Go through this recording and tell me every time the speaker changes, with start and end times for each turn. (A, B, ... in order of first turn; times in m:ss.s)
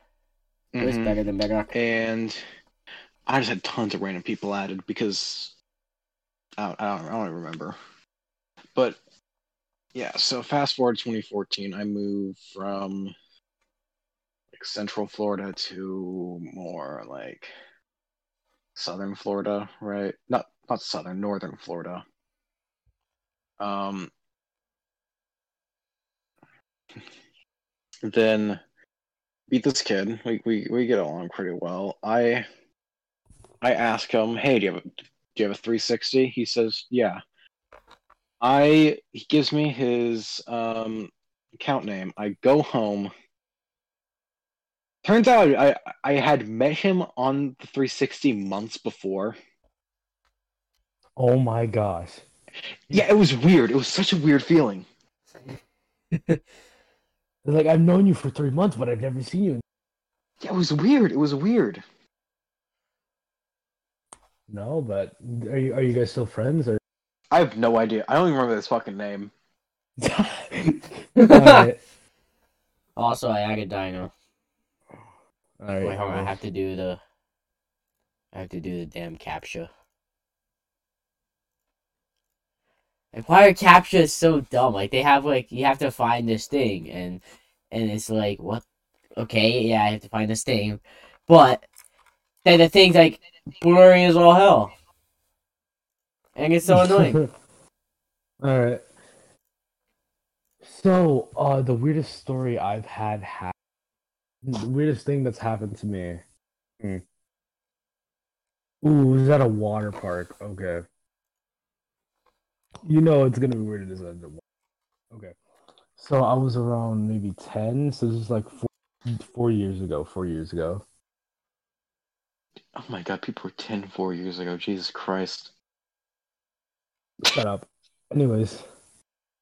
0:00.7-0:01.2 A
0:00.8-0:01.7 B
0:01.7-0:02.4 A
0:03.3-0:05.5 A
0:06.6-0:07.8 A
0:09.9-0:13.1 A
0:14.5-0:17.5 A
0:18.8-0:22.0 A
0:23.6-0:24.1 A
0:28.0-0:28.6 A
0:29.5-0:32.4 A
0:33.6-0:37.2 A
0:38.4-0:43.1 A
0:45.0-0:49.4 A
0:51.2-0:52.2 C
0:52.9-0:54.8 A
0:57.4-0:59.6 C
1:00.4-1:01.8 A
1:04.5-1:06.8 C
1:07.3-1:09.3 A
1:10.0-1:11.8 C
1:11.2-1:11.7 B
1:13.0-1:14.1 B
1:15.6-1:16.4 C
1:15.8-1:17.0 B
1:18.3-1:19.7 B
1:23.1-1:28.6 B
1:29.2-1:31.6 B
1:32.4-1:34.7 B
1:36.4-1:37.2 B
1:36.7-1:37.3 C
1:38.4-1:38.8 C
1:40.6-1:43.5 C
1:44.4-1:46.2 C
1:48.8-1:50.8 C
1:52.8-1:54.4 C
1:56.0-2:00.8 C
2:02.7-2:05.5 A
2:07.2-2:08.7 C